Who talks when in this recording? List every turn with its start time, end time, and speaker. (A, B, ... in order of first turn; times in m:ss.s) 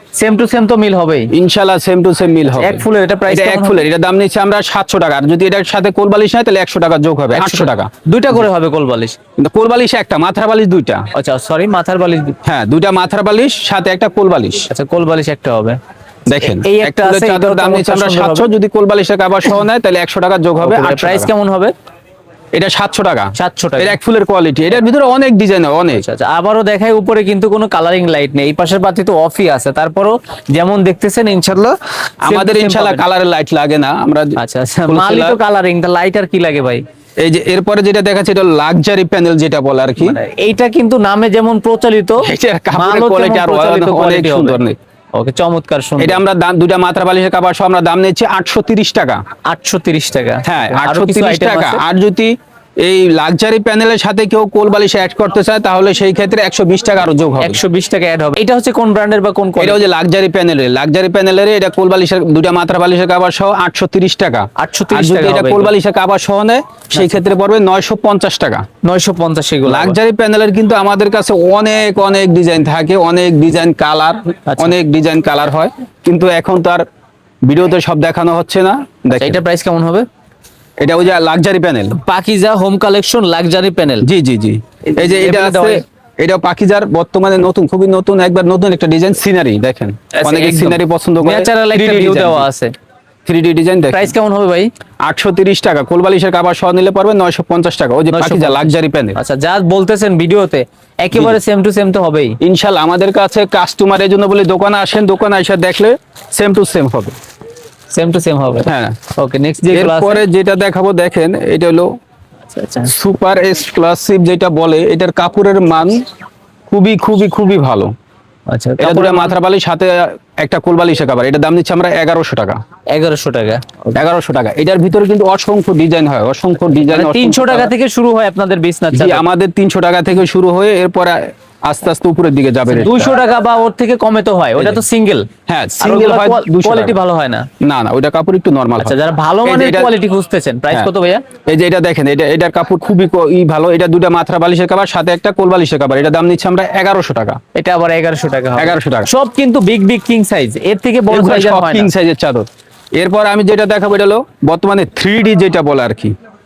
0:00.2-0:01.3 A
0:01.3-0:08.4 B
0:02.5-0:03.8 A
0:07.4-0:09.2 A
0:09.4-0:11.1 B
0:11.1-0:12.4 A
0:12.4-0:14.7 B
0:14.7-0:15.8 A
0:16.3-0:21.3 B
0:16.3-0:18.5 A
0:20.6-0:21.7 A
0:22.6-0:26.0 B
0:23.4-0:24.0 A
0:25.9-0:33.0 A
0:32.2-0:34.4 B
0:34.4-0:36.8 A
0:34.9-0:35.4 B
0:37.2-0:40.2 B
0:40.0-0:44.6 A
0:42.2-0:44.8 B
0:45.1-0:46.2 A
0:46.0-0:49.2 B
0:49.5-0:51.8 A
0:50.4-0:57.6 B
0:57.4-0:59.8 A
0:59.6-1:08.6 B
1:04.6-1:05.7 A
1:07.0-1:07.2 A
1:08.8-1:10.0 A
1:09.6-1:16.8 B
1:14.5-1:14.7 A
1:17.4-1:19.4 B
1:19.1-1:20.1 A
1:20.8-1:22.0 B
1:22.0-1:24.1 A
1:24.0-1:32.5 B
1:24.9-1:25.8 A
1:30.1-1:32.7 A
1:33.3-1:34.1 B
1:33.9-1:34.7 A
1:35.0-1:39.2 B
1:38.1-1:42.4 A
1:41.1-1:41.4 B
1:42.4-1:47.2 B
1:47.9-1:50.2 A
1:48.6-1:49.0 B
1:49.7-1:51.9 B
1:52.5-1:52.9 A
1:52.9-1:56.0 B
1:56.7-1:57.9 B
1:58.5-1:59.4 A
1:58.8-2:02.6 B
2:02.9-2:03.9 A
2:03.9-2:07.7 B
2:06.8-2:09.2 A
2:08.9-2:13.2 B
2:12.7-2:15.3 A
2:15.5-2:17.0 B
2:15.8-2:17.5 A
2:17.6-2:19.9 B
2:18.8-2:21.2 A
2:21.5-2:27.4 B
2:27.6-2:31.9 A
2:28.6-2:29.1 B
2:31.1-2:36.1 B